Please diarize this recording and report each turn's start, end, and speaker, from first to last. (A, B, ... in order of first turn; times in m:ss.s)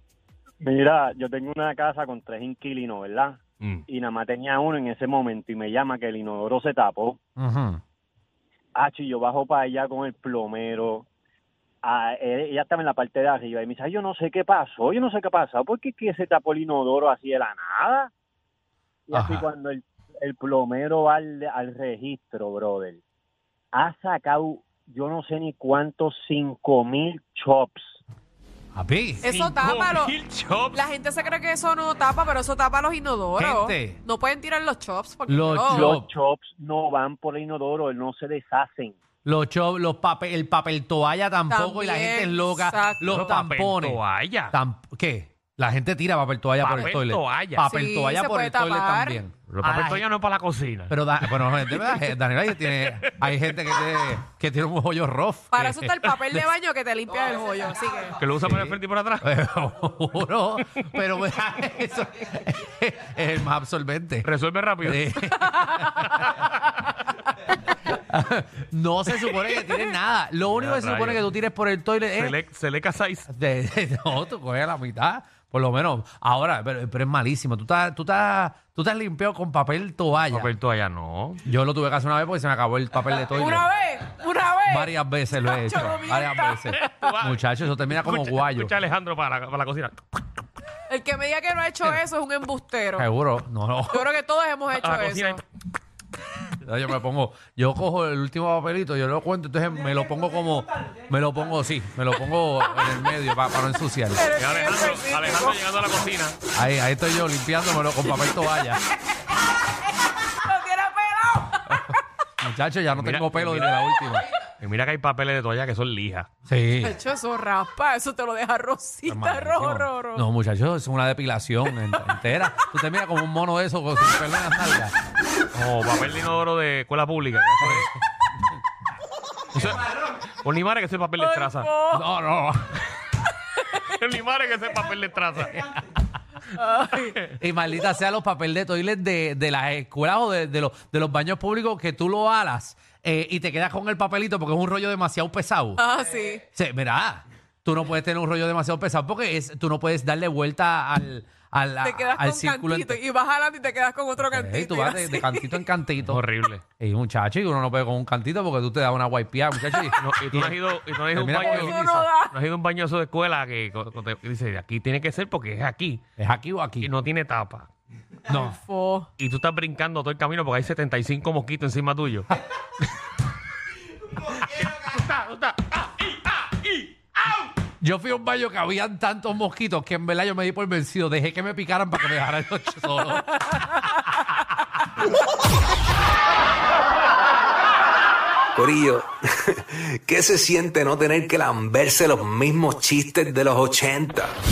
0:00.6-0:03.4 A
0:03.9-0:07.2 A
0:07.4-0:07.8 B
0:08.7-0:11.0 A
0:11.8-0:18.1 A
0:19.1-0:23.0 A
0:19.1-0:19.5 B
0:23.7-0:27.9 A
0:28.7-0:29.2 B
0:29.2-0:30.1 C
0:29.2-0:30.8 D
0:30.7-0:36.0 C
0:33.4-0:34.0 B
0:35.3-0:36.1 B
0:35.7-0:38.9 A
0:39.2-0:50.0 B
0:41.5-0:43.1 C
0:43.1-0:44.5 D
0:46.6-0:47.6 D
0:47.7-0:49.2 C
0:49.5-0:51.3 D
0:50.9-0:56.5 B
0:55.5-0:58.2 C
0:58.2-0:59.2 D
0:58.3-1:04.3 B
1:04.2-1:05.2 D
1:04.8-1:06.3 B
1:06.2-1:06.5 D
1:07.9-1:12.4 B
1:10.5-1:11.2 D
1:12.1-1:13.3 D
1:13.3-1:20.5 B
1:20.3-1:21.4 D
1:21.4-1:23.6 B
1:23.2-1:27.2 C
1:24.7-1:28.7 B
1:26.7-1:30.0 D
1:30.9-1:33.1 C
1:33.0-1:34.0 B
1:33.9-1:35.4 C
1:34.7-1:35.4 D
1:36.6-1:44.3 B
1:44.1-1:45.6 C
1:44.4-1:46.4 D
1:46.5-1:48.8 B
1:50.3-1:52.0 C
1:51.7-1:54.2 B
1:52.9-1:53.8 D
1:54.6-1:56.3 D
1:56.5-1:57.0 B
1:56.8-2:00.2 C
1:59.1-2:04.9 B
2:05.5-2:07.9 D
2:09.5-2:11.7 D
2:09.6-2:09.8 B
2:11.2-2:12.0 C
2:11.9-2:12.6 B
2:13.8-2:15.6 D
2:16.5-2:17.1 C
2:17.4-2:25.8 B
2:25.8-2:26.4 C
2:26.5-2:33.0 B
2:31.8-2:35.6 C
2:34.2-2:36.2 B
2:36.0-2:36.6 D
2:36.8-2:40.6 B
2:40.0-2:46.0 D
2:41.1-2:41.8 B
2:41.4-2:42.4 C
2:46.2-2:46.9 B
2:46.8-2:47.7 D
2:48.3-2:48.6 B
2:48.5-2:49.1 C
2:49.2-2:52.3 D
2:54.6-2:55.7 D
2:57.8-3:04.3 B
3:08.6-3:14.4 E